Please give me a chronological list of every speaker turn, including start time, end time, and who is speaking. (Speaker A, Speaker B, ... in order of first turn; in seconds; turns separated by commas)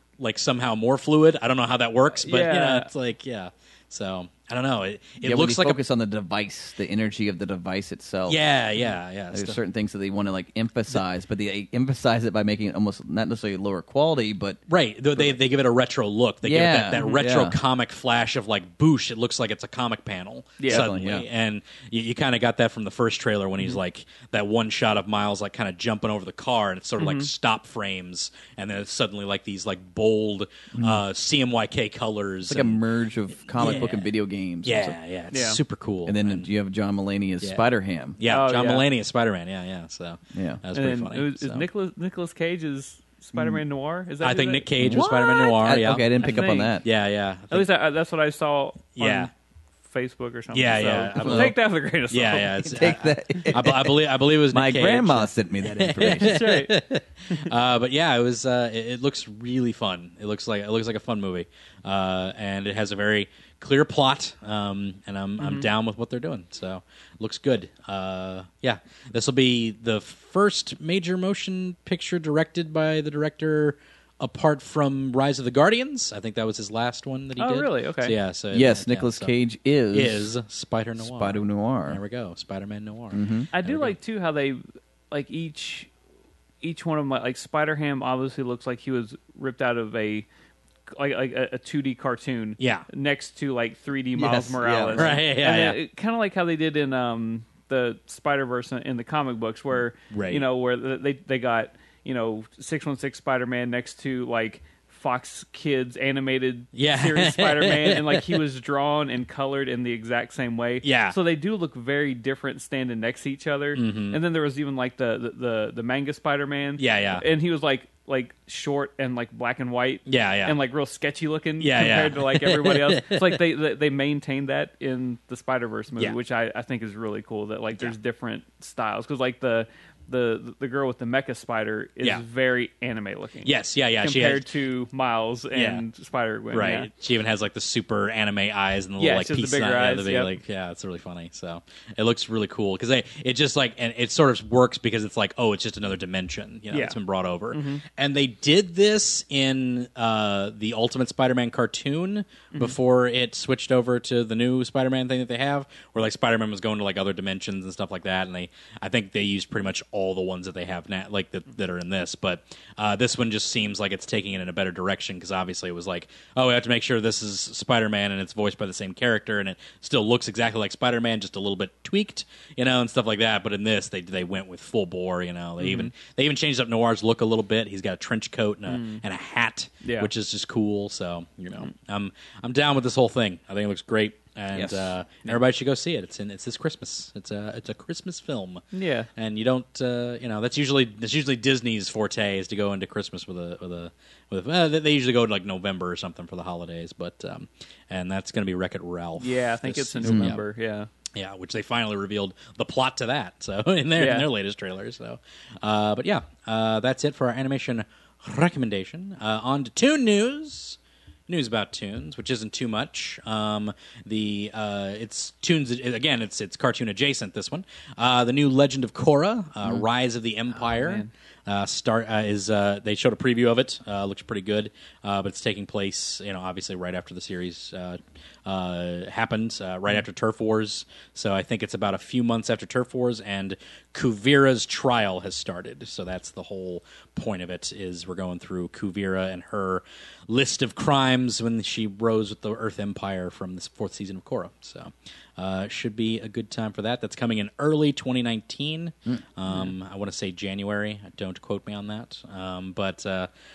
Speaker A: 0.2-5.8, Speaker B: 2.1-2.9, Speaker C: 5.2-8.4, Speaker A: 8.2-9.6, Speaker C: 9.3-14.6, Speaker A: 14.7-32.8, Speaker C: 16.4-17.6, Speaker B: 20.6-20.9, Speaker C: 20.7-21.3, Speaker B: 27.0-27.3, Speaker C: 30.7-31.0, Speaker C: 32.5-35.0, Speaker A: 33.6-34.1, Speaker B: 33.6-33.9, Speaker A: 34.6-36.5, Speaker B: 35.3-35.6, Speaker C: 36.0-38.2, Speaker A: 38.2-41.7, Speaker B: 38.2-38.9, Speaker C: 40.3-40.6, Speaker B: 40.7-44.7, Speaker C: 43.3-43.6, Speaker A: 44.2-47.7, Speaker C: 44.8-46.8, Speaker B: 46.2-46.8, Speaker B: 47.5-49.3, Speaker A: 49.0-49.3, Speaker B: 49.9-53.5, Speaker A: 50.5-51.6, Speaker C: 51.2-51.5, Speaker A: 52.1-79.3, Speaker C: 52.6-54.0, Speaker C: 54.5-56.4, Speaker B: 56.1-56.7, Speaker B: 65.4-65.7, Speaker B: 77.4-78.1, Speaker C: 78.5-80.3, Speaker A: 79.9-84.0, Speaker C: 81.0-82.0, Speaker C: 83.1-83.5, Speaker B: 83.5-85.9, Speaker B: 86.6-90.2, Speaker B: 91.0-133.5, Speaker A: 92.6-92.9, Speaker C: 94.1-95.2, Speaker A: 94.9-95.8, Speaker A: 100.1-100.5, Speaker A: 106.7-108.4, Speaker A: 110.8-111.2, Speaker A: 113.7-114.2, Speaker A: 116.8-117.2, Speaker A: 120.0-120.6, Speaker A: 121.6-123.4, Speaker A: 133.4-134.4, Speaker B: 134.0-136.9, Speaker A: 135.5-135.8, Speaker A: 136.5-188.6, Speaker B: 139.0-140.3, Speaker B: 146.7-147.0, Speaker B: 147.5-147.8, Speaker B: 175.6-175.9, Speaker B: 178.7-179.0, Speaker B: 179.8-180.1, Speaker C: 184.5-184.9, Speaker B: 188.7-189.1, Speaker A: 189.2-200.4, Speaker B: 199.2-200.9, Speaker C: 200.0-200.4, Speaker A: 201.1-253.3, Speaker B: 204.0-204.3, Speaker B: 220.6-221.1